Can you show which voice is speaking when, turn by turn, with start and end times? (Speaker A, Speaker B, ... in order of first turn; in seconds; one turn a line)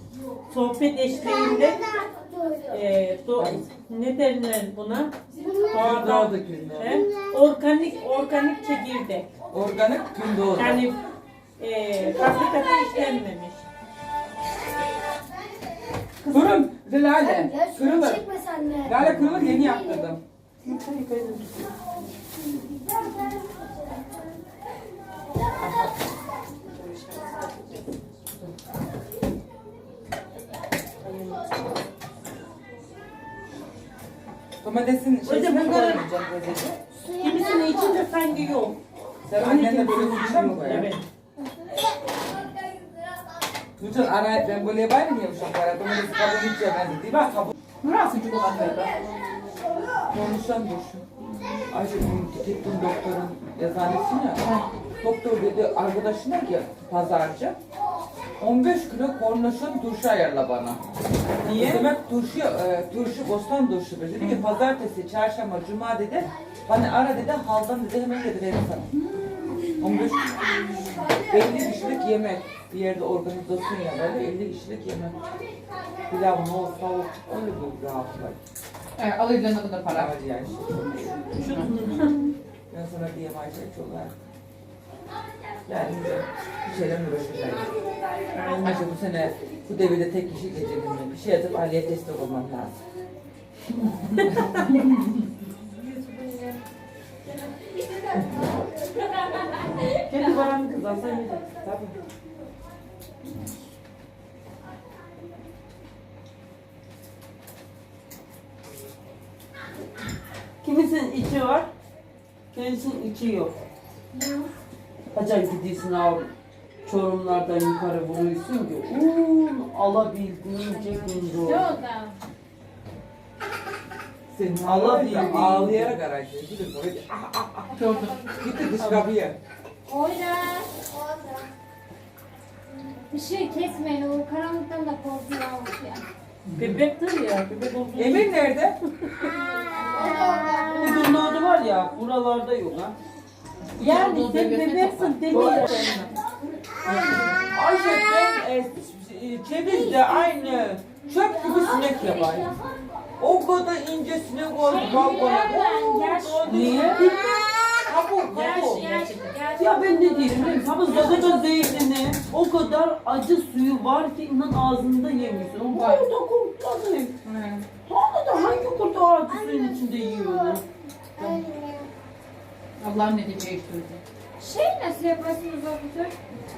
Speaker A: 0.5-2.0
Speaker B: 2.3-2.6
Speaker A: 2.7-9.3
Speaker C: 5.7-7.0
Speaker C: 9.5-10.9
Speaker A: 10.5-11.0
Speaker A: 11.6-13.7
Speaker C: 16.2-20.2
Speaker B: 17.4-18.9
Speaker D: 19.0-19.6
Speaker D: 20.6-21.7
Speaker C: 25.6-25.9
Speaker A: 26.8-27.4
Speaker C: 34.6-36.8
Speaker A: 35.2-36.0
Speaker A: 37.1-38.8
Speaker C: 39.3-40.9
Speaker A: 39.4-41.0
Speaker C: 43.8-47.5
Speaker E: 47.8-49.0
Speaker C: 50.1-51.0
Speaker C: 51.7-54.4
Speaker E: 54.4-54.7
Speaker C: 55.0-57.6
Speaker C: 58.4-60.8
Speaker D: 61.4-61.9
Speaker C: 61.5-68.9
Speaker C: 69.8-75.2
Speaker C: 76.1-78.4
Speaker E: 79.0-80.1
Speaker C: 79.9-81.4
Speaker A: 81.3-82.3
Speaker E: 81.5-81.8
Speaker C: 82.7-84.2
Speaker C: 85.7-87.7
Speaker A: 88.3-88.8
Speaker C: 88.6-92.8
Speaker C: 93.7-95.0
Speaker A: 94.2-94.7
Speaker D: 99.9-101.9
Speaker D: 110.6-111.7
Speaker D: 112.5-113.5
Speaker B: 114.1-114.5
Speaker D: 115.1-116.3
Speaker D: 116.8-121.7
Speaker B: 120.7-122.2
Speaker C: 124.3-127.8
Speaker D: 124.6-126.0
Speaker E: 127.7-128.3
Speaker B: 127.8-128.7
Speaker C: 128.3-129.4
Speaker B: 129.8-131.5
Speaker B: 133.1-136.1
Speaker A: 136.6-139.3
Speaker C: 137.9-138.8
Speaker B: 139.9-141.1
Speaker D: 140.7-142.9
Speaker A: 143.8-146.1
Speaker E: 143.8-146.2
Speaker C: 147.5-152.5
Speaker B: 151.6-152.5
Speaker C: 153.2-156.5
Speaker B: 154.6-157.7
Speaker A: 155.8-157.2
Speaker D: 156.4-157.4
Speaker C: 157.8-158.9
Speaker A: 158.3-159.4
Speaker B: 158.6-161.7
Speaker D: 159.6-167.1
Speaker C: 160.8-161.2
Speaker E: 165.6-166.1
Speaker C: 167.2-167.7
Speaker D: 167.9-170.6
Speaker B: 171.2-171.8
Speaker E: 172.8-174.0
Speaker B: 174.4-176.1